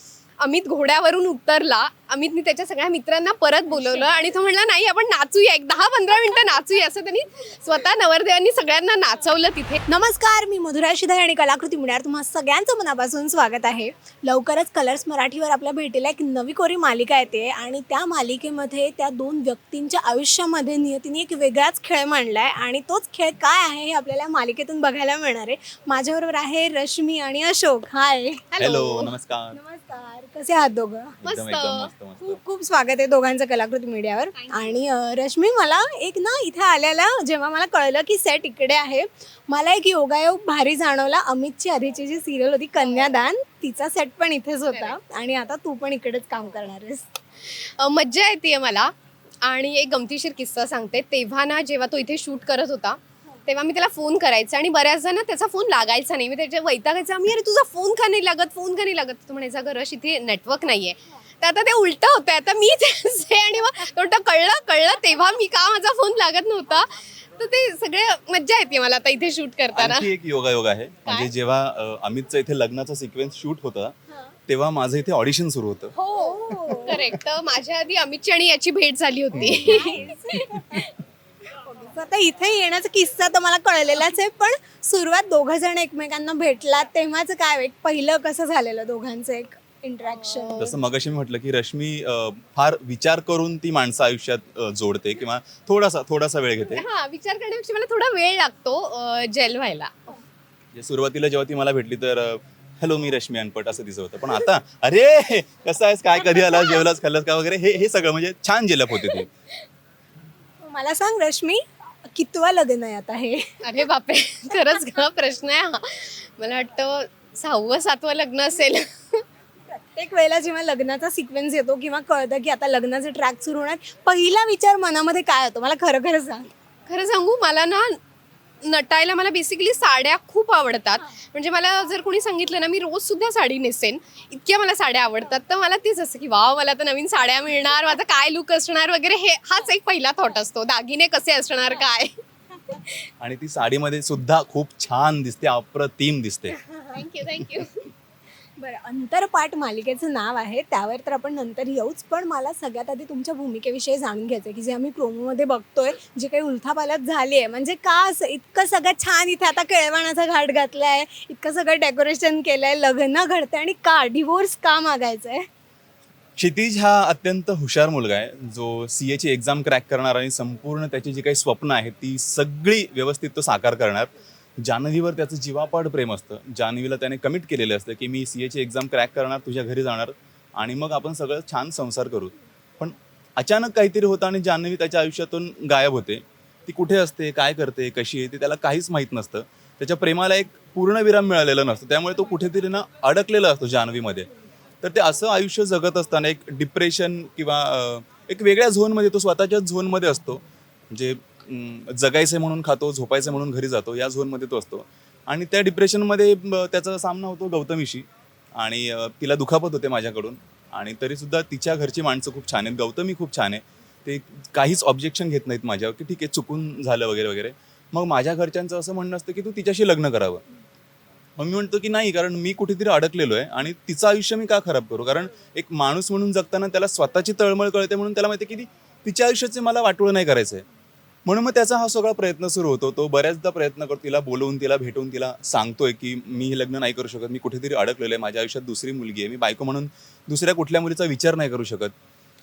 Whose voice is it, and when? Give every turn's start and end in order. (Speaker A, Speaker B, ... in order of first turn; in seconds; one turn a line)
Speaker A: 0.4-9.8
Speaker B: 9.9-28.5
Speaker A: 28.6-29.1
Speaker C: 28.6-29.6
Speaker B: 29.5-31.2
Speaker C: 31.2-32.4
Speaker A: 31.2-31.9
Speaker B: 32.3-47.1
Speaker A: 34.4-34.8
Speaker A: 42.8-43.1
Speaker A: 44.7-45.0
Speaker A: 47.5-70.1
Speaker C: 69.8-74.0
Speaker C: 74.5-75.9
Speaker A: 75.9-80.9
Speaker B: 76.2-76.9
Speaker C: 79.3-80.9
Speaker B: 79.7-80.8
Speaker B: 81.7-90.5
Speaker A: 90.1-90.8
Speaker C: 90.5-96.9
Speaker A: 96.7-100.2
Speaker C: 100.7-109.3
Speaker A: 106.3-106.8
Speaker A: 109.0-109.3
Speaker B: 110.6-113.6
Speaker A: 113.6-119.2
Speaker B: 119.8-126.5
Speaker A: 126.9-128.0
Speaker A: 128.6-142.2
Speaker A: 142.7-143.1
Speaker C: 143.2-146.6
Speaker A: 146.8-147.9
Speaker B: 148.6-165.5
Speaker C: 166.4-194.3
Speaker C: 194.8-220.4
Speaker C: 221.4-230.7
Speaker C: 231.3-241.9